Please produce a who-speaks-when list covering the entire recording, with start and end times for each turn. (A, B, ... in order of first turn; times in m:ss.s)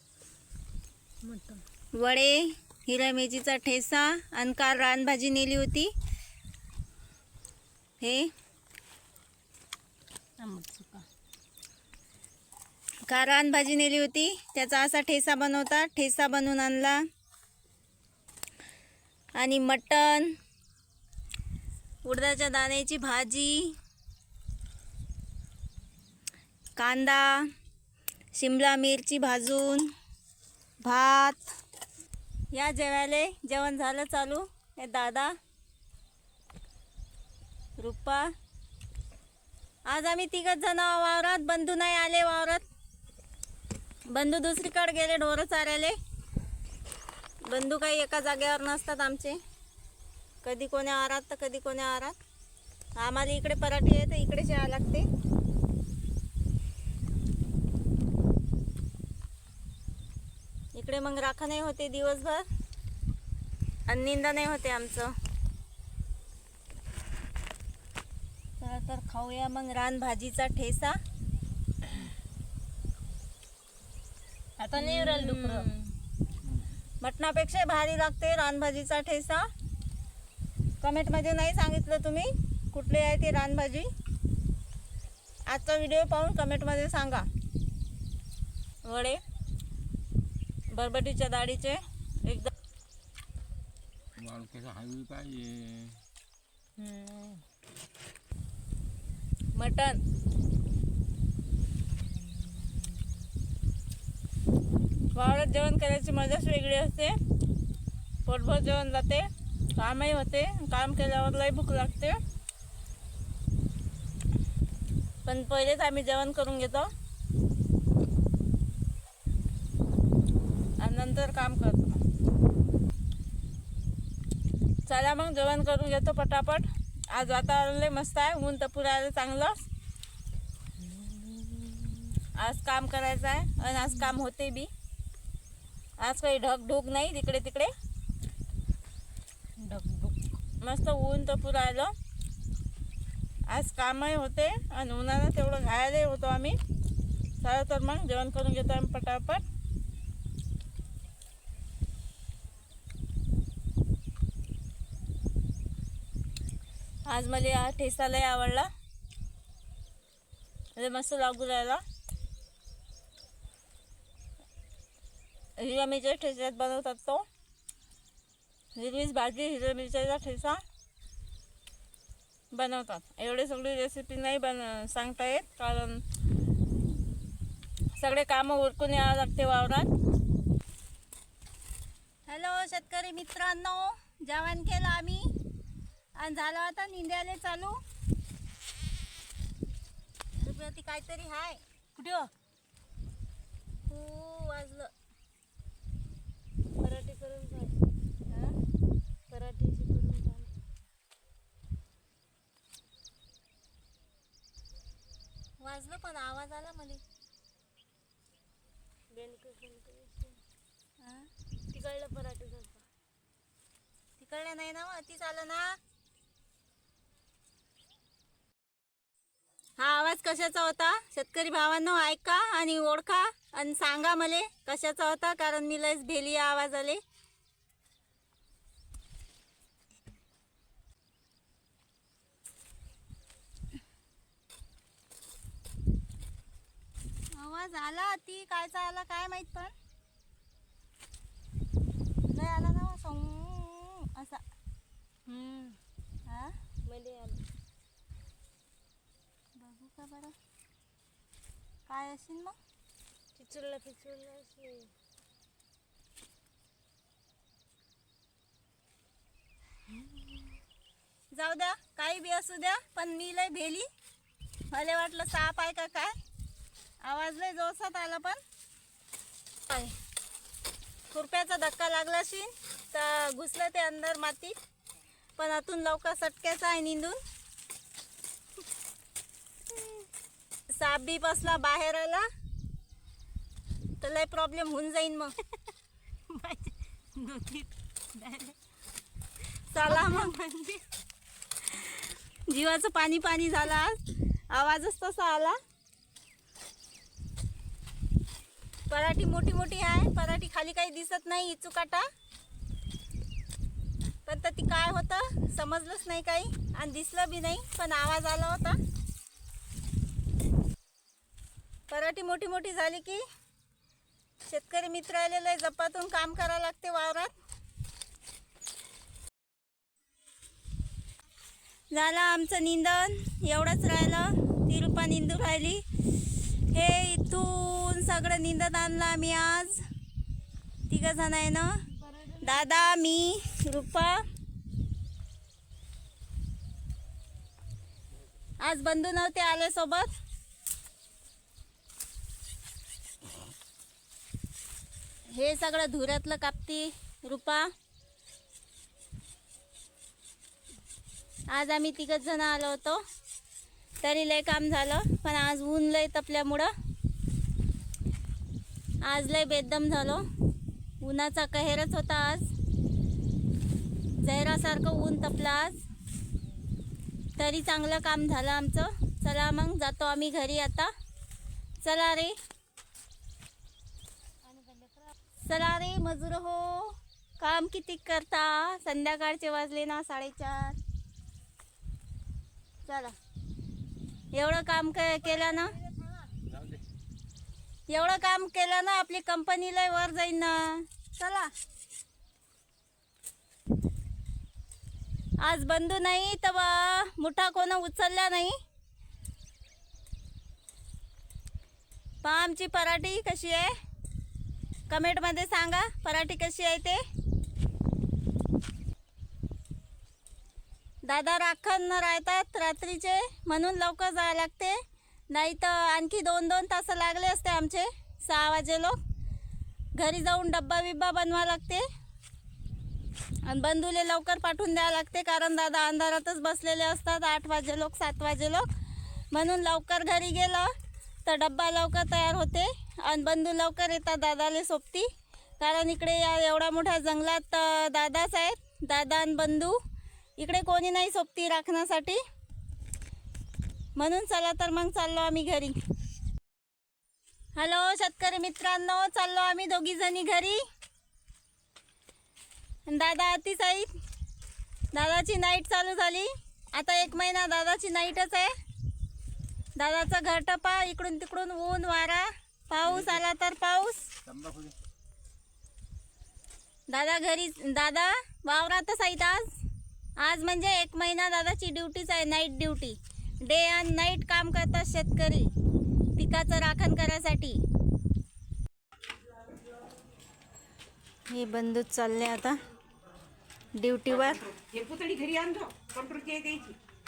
0:01.2-0:01.6 A
0:02.0-0:05.9 B
0:08.0-0:08.3 B
0:10.4-0:11.0 A
0:13.1-0:17.0 B
0:19.4-0:20.3 B
0:22.0-0:23.7 B
0:26.8-0:27.5 B
0:28.4-0:29.9 B
0:30.8-0:31.5 B
0:32.5-0:35.3 B
0:37.8-0:38.3 B
0:39.9-0:42.6 B
0:44.1-0:46.0 B
0:47.5-0:49.4 B
0:50.4-0:52.2 B
0:53.0-0:55.1 B
1:00.8-1:02.5 B
1:03.9-1:05.1 B
1:08.6-1:11.0 B
1:14.6-1:15.7 A
1:14.8-1:15.7 B
1:17.0-1:19.5 B
1:20.8-1:23.9 B
1:25.5-1:27.3 B
1:28.8-1:29.2 B
1:30.7-1:32.5 B
1:34.2-1:36.0 C
1:36.8-1:37.4 A
1:39.6-1:40.0 B
1:45.2-1:47.2 B
1:48.3-1:52.2 B
1:55.3-1:56.9 B
2:00.8-2:02.0 B
2:04.9-2:09.6 B
2:10.9-2:12.0 A
2:12.4-2:14.7 B
2:16.0-2:17.7 B
2:19.6-2:20.2 A
2:20.6-2:21.9 B
2:23.5-2:26.6 B
2:27.4-2:29.4 B
2:37.1-2:38.7 B
2:40.8-2:41.8 B
2:45.6-2:47.2 B
2:48.8-2:50.6 B
2:52.5-2:56.0 B
2:58.0-2:59.9 B
3:02.3-3:05.3 B
3:06.2-3:07.8 B
3:10.4-3:11.6 B
3:12.0-3:12.3 A
3:13.9-3:14.9 B
3:16.8-3:17.8 A
3:18.3-3:18.6 B
3:19.3-3:20.5 A
3:25.6-3:27.0 B
3:29.1-3:30.4 A
3:31.0-3:31.3 B
3:31.7-3:32.8 A
3:34.2-3:35.8 B
3:39.8-3:47.0 B
3:57.3-3:59.7 B
4:02.3-4:04.4 B
4:05.3-4:05.8 A
4:06.3-4:06.5 B
4:06.9-4:07.4 A
4:09.6-4:10.4 B
4:11.9-4:12.6 B
4:13.4-4:14.9 A
4:21.3-4:23.9 B
4:24.7-4:26.2 B
4:27.0-4:28.4 B
4:29.7-4:29.9 B
4:31.1-4:34.6 B
4:35.4-4:37.2 B
4:40.7-4:42.3 B
4:44.0-4:45.4 B
4:46.3-4:48.6 A
4:49.7-4:50.4 B
4:49.8-4:50.8 A
4:52.5-4:54.0 B
4:54.5-4:55.6 B
4:58.9-5:02.1 B
5:04.2-5:08.8 B
5:11.9-5:13.2 B
5:14.5-5:17.4 B
5:21.9-5:25.8 B
5:26.7-5:29.8 B
5:30.9-5:31.8 B
5:32.0-5:32.9 A
5:32.4-5:34.2 B
5:38.6-5:40.1 B
5:45.3-5:47.7 B
5:51.5-5:53.0 B
5:54.0-5:56.7 B
5:59.0-6:00.2 B
6:01.0-6:02.5 B
6:04.2-6:05.8 B
6:07.4-6:10.9 B
6:11.8-6:12.4 B
6:14.5-6:14.9 A
6:15.4-6:20.8 B
6:22.9-6:23.1 B
6:24.3-6:25.8 B
6:27.9-6:31.5 B
6:35.4-6:38.6 B
6:42.2-6:43.7 B
6:44.9-6:47.0 B
6:51.0-6:54.8 B
6:55.3-6:59.0 B
7:00.0-7:01.8 B
7:03.4-7:08.7 B
7:09.3-7:10.7 B
7:11.2-7:15.1 B
7:15.6-7:19.8 B
7:20.4-7:22.2 B
7:24.0-7:25.8 B
7:27.6-7:30.6 B
7:32.9-7:33.9 B
7:34.9-7:38.5 B
7:39.8-7:44.1 B
7:44.3-7:44.7 C
7:46.9-7:49.6 B
7:50.2-7:55.5 B
7:56.2-7:57.6 B
8:01.3-8:02.6 B
8:03.8-8:04.5 B
8:04.7-8:06.8 A